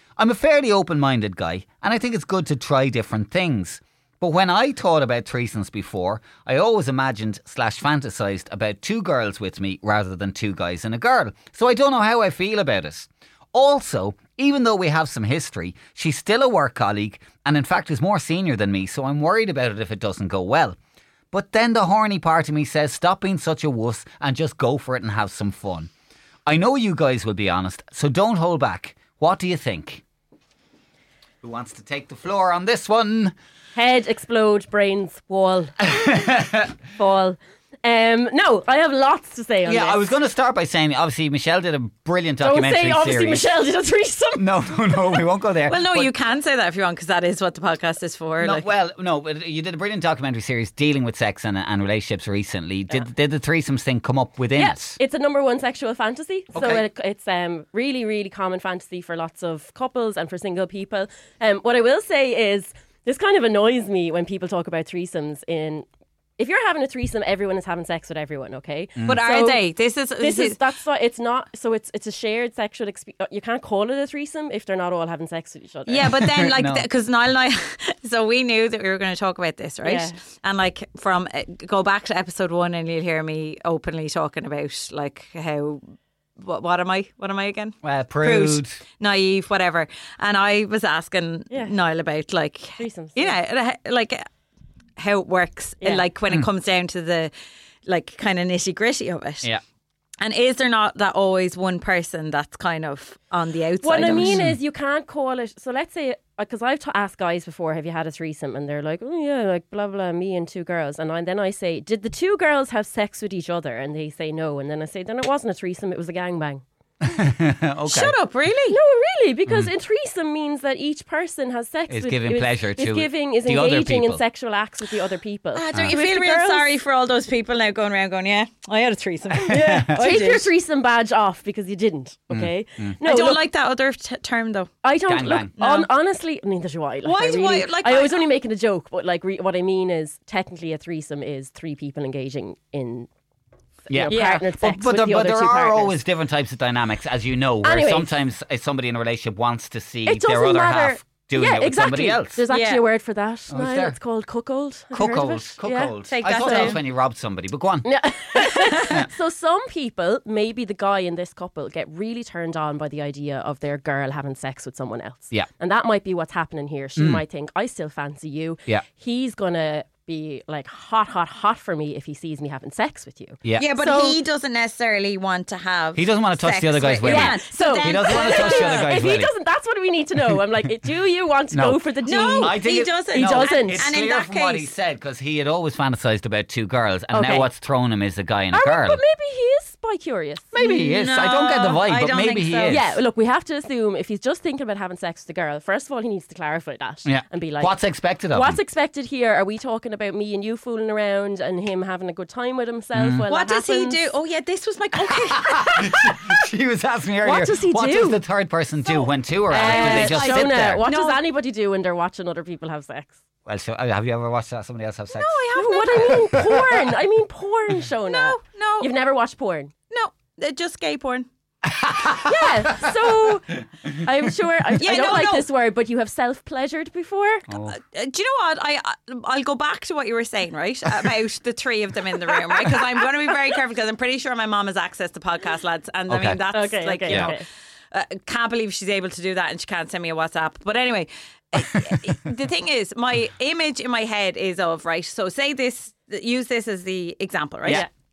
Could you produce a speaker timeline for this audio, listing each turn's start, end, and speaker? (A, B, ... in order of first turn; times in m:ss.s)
0:00.2-0:20.8 A
0:21.3-0:25.9 A
0:26.5-0:30.0 A
0:31.4-0:33.3 A
0:33.8-0:40.0 B
0:39.6-0:43.5 A
0:42.4-0:45.3 B
0:44.4-0:46.1 A
0:45.7-0:48.6 C
0:48.4-0:55.0 A
0:54.6-1:05.9 B
0:56.5-0:56.8 A
1:06.4-1:16.2 B
1:09.0-1:10.6 C
1:15.9-1:25.8 C
1:16.5-1:16.9 A
1:19.8-1:20.2 B
1:26.4-1:34.2 C
1:27.8-1:28.8 A
1:31.5-1:31.8 B
1:32.8-1:33.4 B
1:35.0-1:37.3 C
1:37.9-1:39.5 C
1:40.2-1:44.5 C
1:43.8-1:56.6 B
1:44.0-1:44.6 A
1:57.0-1:58.2 A
1:57.9-1:58.8 C
1:58.7-2:06.8 B
2:01.9-2:04.2 A
2:05.6-2:10.5 C
2:09.5-2:10.1 A
2:09.5-2:13.4 B
2:12.3-2:13.0 A
2:13.0-2:14.7 C
2:14.8-2:23.1 B
2:15.1-2:15.6 A
2:15.6-2:15.9 C
2:17.0-2:18.3 C
2:23.9-2:26.0 B
2:23.9-2:32.4 A
2:24.1-2:24.5 C
2:27.6-2:28.2 B
2:30.0-2:36.8 B
2:32.5-2:32.8 C
2:33.5-2:34.0 A
2:34.9-2:37.9 A
2:36.1-2:36.8 C
2:37.8-2:54.2 B
2:47.0-2:47.2 A
2:53.4-2:53.7 A
2:53.6-2:58.9 C
2:56.0-2:59.3 A
2:57.0-3:02.6 B
3:01.5-3:09.0 A
3:02.0-3:04.7 C
3:03.1-3:03.9 B
3:07.1-3:07.5 B
3:08.5-3:10.8 B
3:10.5-3:13.0 A
3:10.6-3:12.8 C
3:12.7-3:24.1 B
3:17.0-3:18.6 A
3:23.0-3:23.3 A
3:23.3-3:26.1 C
3:25.5-3:30.8 A
3:27.2-3:28.2 B
3:28.9-3:33.2 B
3:29.5-3:31.2 C
3:33.5-3:36.9 A
3:35.1-3:36.2 C
3:35.6-3:39.7 B
3:38.1-3:38.9 C
3:39.9-3:41.3 C
3:41.8-3:43.3 A
3:42.0-3:47.5 B
3:44.8-3:45.5 C
3:47.5-3:47.8 A
3:47.7-4:07.9 C
3:56.1-3:56.4 A
3:56.5-3:57.4 B
3:57.1-3:57.3 A